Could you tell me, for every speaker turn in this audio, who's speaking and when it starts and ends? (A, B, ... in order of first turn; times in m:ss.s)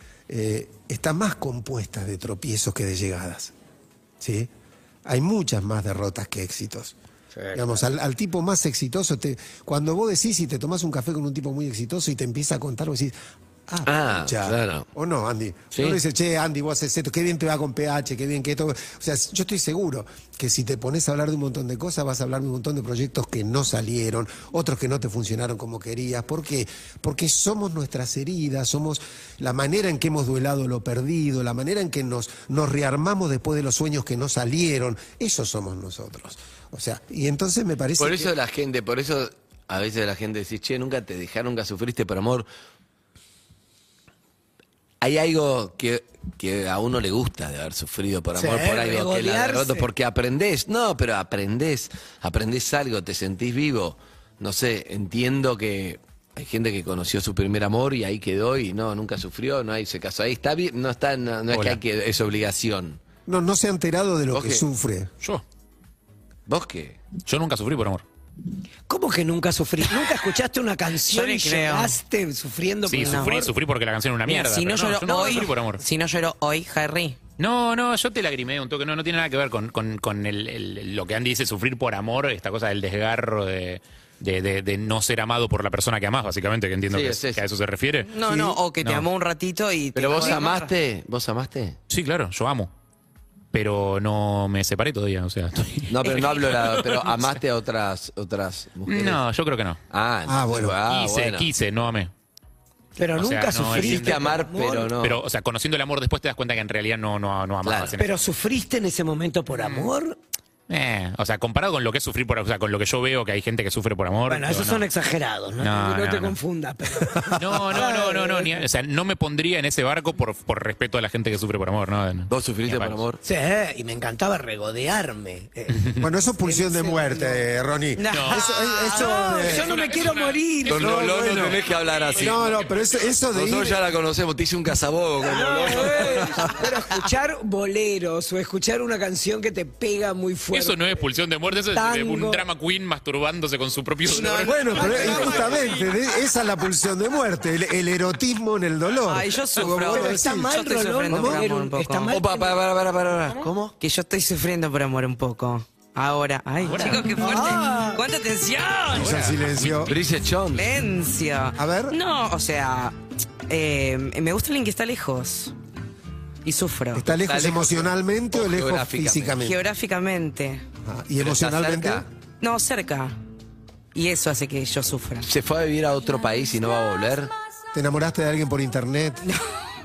0:00.3-0:03.5 A
0:04.2-0:04.5 A
0:05.0-0:06.9 A
0:07.4-0:07.7 B
0:07.5-0:13.1 A
0:13.7-0:38.3 A
0:13.8-0:14.8 C
0:15.7-0:16.0 C
0:38.0-0:42.4 C
0:45.0-1:03.0 C
0:48.3-0:49.8 B
1:01.5-1:01.8 D
1:03.3-1:05.1 A
1:04.3-1:04.6 C
1:06.5-1:07.0 C
1:07.2-1:08.0 D
1:08.9-1:13.5 B
1:11.1-1:12.0 E
1:12.9-1:15.8 D
1:13.0-1:13.4 E
1:14.2-1:17.2 E
1:15.1-1:15.5 B
1:17.4-1:29.0 D
1:26.9-1:27.4 C
1:28.0-1:30.7 E
1:30.0-1:31.8 C
1:31.9-1:32.7 D
1:33.5-1:37.2 D
1:35.9-1:39.2 C
1:38.9-1:39.8 D
1:39.9-1:41.5 C
1:40.3-1:40.8 A
1:40.9-1:42.1 D
1:43.0-1:45.0 B
1:43.1-1:44.4 D
1:43.8-1:45.2 C
1:45.0-1:48.2 D
1:47.6-1:47.9 C
1:48.0-1:50.2 B
1:49.5-1:49.9 D
1:50.7-1:54.8 D
1:54.3-1:58.6 B
1:55.6-1:56.4 D
1:57.2-1:57.8 A
1:57.3-2:03.0 D
2:02.3-2:03.2 C
2:03.2-2:07.4 B
2:06.0-2:09.7 A
2:08.0-2:09.3 E
2:08.1-2:08.4 D
2:08.9-2:11.6 B
2:09.5-2:13.1 D
2:10.7-2:12.4 C
2:12.2-2:13.8 A
2:13.3-2:16.6 C
2:15.2-2:21.0 B
2:20.5-2:24.8 D
2:21.6-2:22.4 B
2:24.1-2:25.9 B
2:24.4-2:31.4 A
2:24.8-2:25.2 E
2:29.0-2:32.1 E
2:29.6-2:32.6 B
2:32.1-2:33.7 C
2:33.8-2:39.2 E
2:36.7-2:37.0 D
2:36.7-2:38.0 B
2:38.9-2:39.9 A
2:39.0-2:40.0 D
2:39.7-2:40.7 C
2:40.5-2:43.0 E
2:41.6-2:42.0 A
2:43.5-2:45.5 E
2:46.4-2:47.0 E
2:46.9-2:49.6 A
2:47.1-2:49.4 C
2:49.4-2:50.6 E
2:50.8-2:52.1 A
2:51.2-2:52.0 C
2:52.4-2:53.2 E
2:53.9-2:55.3 E
2:55.2-2:57.3 C
2:57.7-2:59.3 A